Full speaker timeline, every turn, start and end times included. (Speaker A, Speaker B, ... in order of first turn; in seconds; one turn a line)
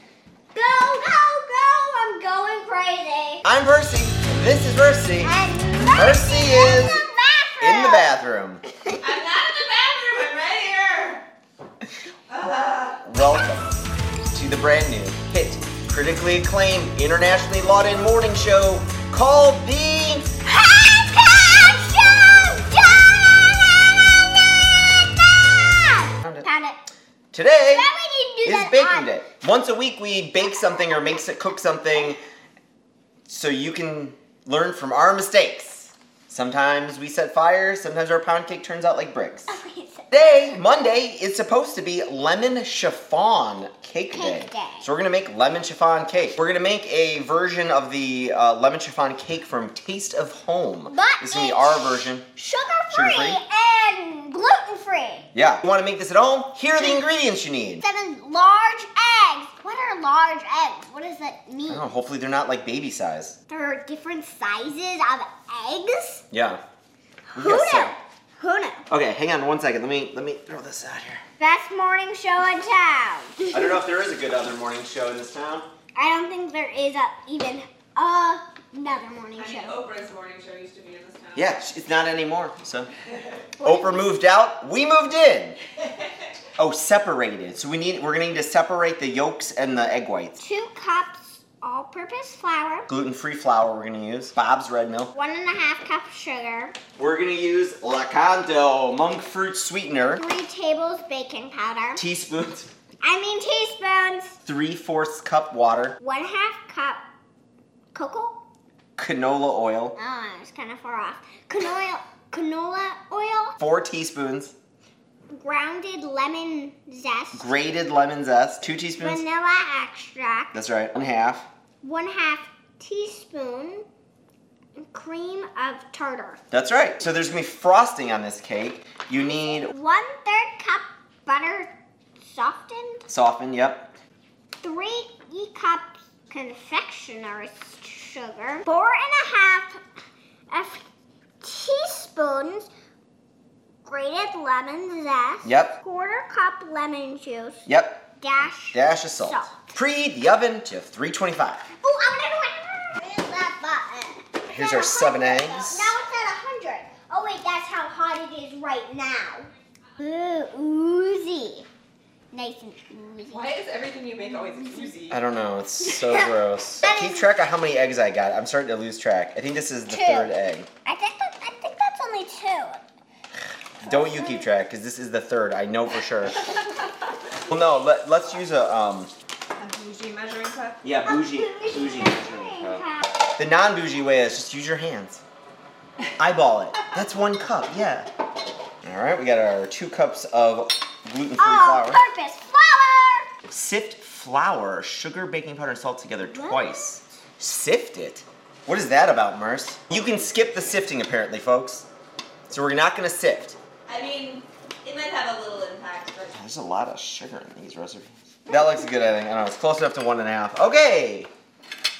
Speaker A: 0.5-3.4
Speaker B: 3.5-5.3
Speaker A: 5.2-8.1
Speaker B: 5.9-7.0
Speaker B: 7.6-8.6
Speaker C: 9.0-11.2
Speaker C: 12.3-13.0
Speaker B: 13.0-13.7
Speaker B: 14.3-20.3
Speaker A: 20.4-26.8
Speaker B: 27.3-27.9
Speaker A: 27.7-29.1
Speaker B: 28.4-32.2
Speaker B: 33.3-39.6
Speaker A: 39.5-40.6
Speaker B: 40.1-52.3
Speaker A: 44.1-44.9
Speaker A: 50.9-55.3
Speaker B: 52.9-53.4
Speaker B: 55.3-57.8
Speaker A: 57.8-61.9
Speaker B: 61.7-63.4
Speaker A: 63.5-66.2
Speaker B: 66.3-66.6
Speaker A: 67.3-68.8
Speaker B: 67.4-68.0
Speaker B: 68.9-71.2
Speaker A: 71.4-73.8
Speaker B: 73.5-75.7
Speaker A: 76.0-79.8
Speaker C: 79.4-81.6
Speaker B: 81.3-82.9
Speaker A: 83.6-84.1
Speaker B: 83.6-85.6
Speaker B: 86.6-90.4
Speaker A: 90.4-92.9
Speaker B: 92.9-95.1
Speaker A: 95.1-96.8
Speaker B: 97.0-100.2
Speaker A: 100.1-102.0
Speaker B: 102.0-102.7
Speaker A: 103.0-104.4
Speaker B: 104.4-106.0
Speaker A: 106.0-107.0
Speaker A: 107.9-108.4
Speaker B: 109.0-110.0
Speaker A: 110.0-113.6
Speaker B: 113.6-114.5
Speaker A: 115.3-117.5
Speaker B: 117.3-119.2
Speaker A: 119.0-120.6
Speaker B: 120.5-121.5
Speaker A: 121.8-123.8
Speaker A: 124.8-126.4
Speaker B: 126.5-129.7
Speaker A: 129.4-133.1
Speaker B: 133.1-133.9
Speaker A: 134.6-139.8
Speaker A: 140.5-140.8
Speaker A: 141.4-142.7
Speaker A: 143.8-147.7
Speaker B: 145.4-145.7
Speaker B: 147.7-148.0
Speaker A: 148.2-149.6
Speaker B: 148.7-151.7
Speaker A: 151.8-159.5
Speaker B: 154.5-155.9
Speaker A: 160.0-161.7
Speaker A: 162.3-163.5
Speaker C: 163.3-165.2
Speaker B: 165.1-170.7
Speaker A: 165.8-167.2
Speaker A: 169.9-172.8
Speaker B: 173.8-176.4
Speaker A: 173.8-174.5
Speaker B: 177.5-179.1
Speaker C: 179.6-180.8
Speaker B: 180.8-182.8
Speaker A: 181.0-183.0
Speaker B: 183.4-185.2
Speaker B: 186.2-188.1
Speaker B: 188.8-192.0
Speaker A: 191.4-193.3
Speaker B: 193.5-201.9
Speaker A: 196.2-196.9
Speaker B: 202.5-203.6
Speaker C: 203.9-206.4
Speaker B: 206.3-211.3